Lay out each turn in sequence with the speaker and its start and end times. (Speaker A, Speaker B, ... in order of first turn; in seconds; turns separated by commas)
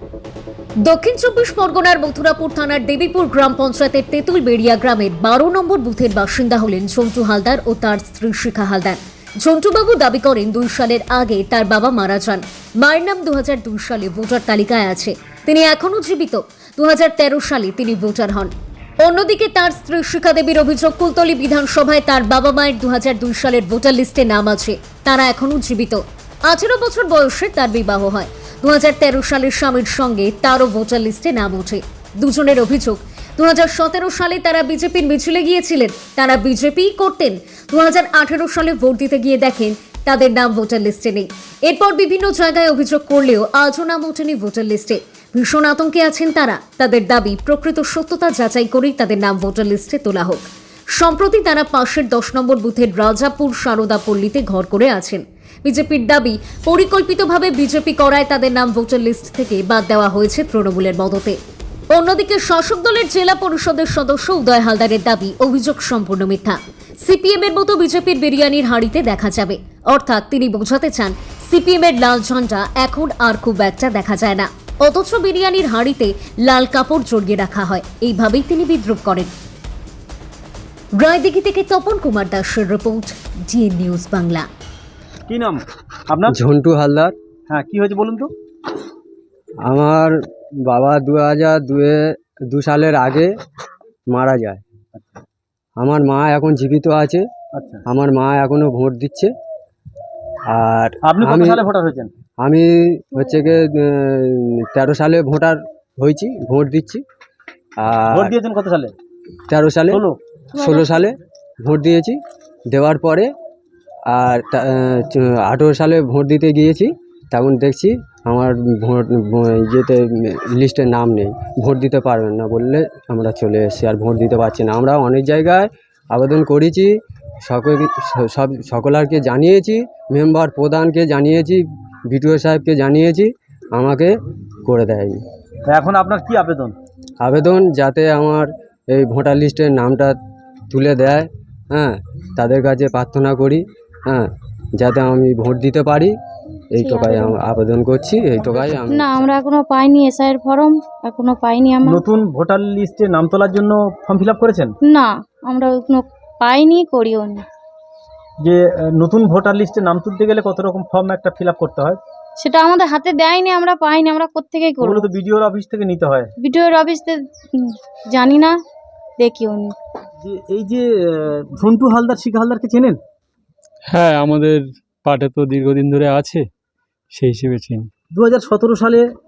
Speaker A: 0.8-61.4, Speaker A: 61.9-79.3, Speaker A: 81.0-84.5, Speaker B: 85.3-86.4, Speaker C: 86.3-87.2, Speaker B: 87.5-88.3, Speaker C: 89.7-90.1, Speaker C: 90.7-93.3, Speaker C: 94.1-94.6, Speaker C: 95.8-97.3, Speaker B: 97.5-97.8, Speaker C: 97.9-99.3, Speaker C: 100.5-101.6, Speaker B: 101.0-102.1, Speaker C: 102.4-107.0, Speaker C: 107.8-108.4, Speaker B: 108.1-108.9, Speaker C: 109.5-110.0, Speaker B: 109.9-110.2, Speaker C: 110.5-113.3, Speaker C: 114.1-134.1, Speaker C: 134.7-135.2, Speaker B: 135.7-136.8, Speaker C: 137.2-140.2, Speaker C: 140.7-146.2, Speaker C: 146.7-149.4, Speaker D: 146.8-147.4, Speaker D: 148.8-152.0, Speaker B: 151.8-154.7, Speaker D: 154.8-157.5, Speaker B: 158.4-162.0, Speaker D: 162.4-165.1, Speaker B: 164.8-166.3, Speaker D: 166.4-168.6, Speaker D: 169.2-169.8, Speaker B: 170.2-173.0, Speaker E: 173.9-176.4, Speaker E: 177.1-177.9, Speaker B: 178.1-179.1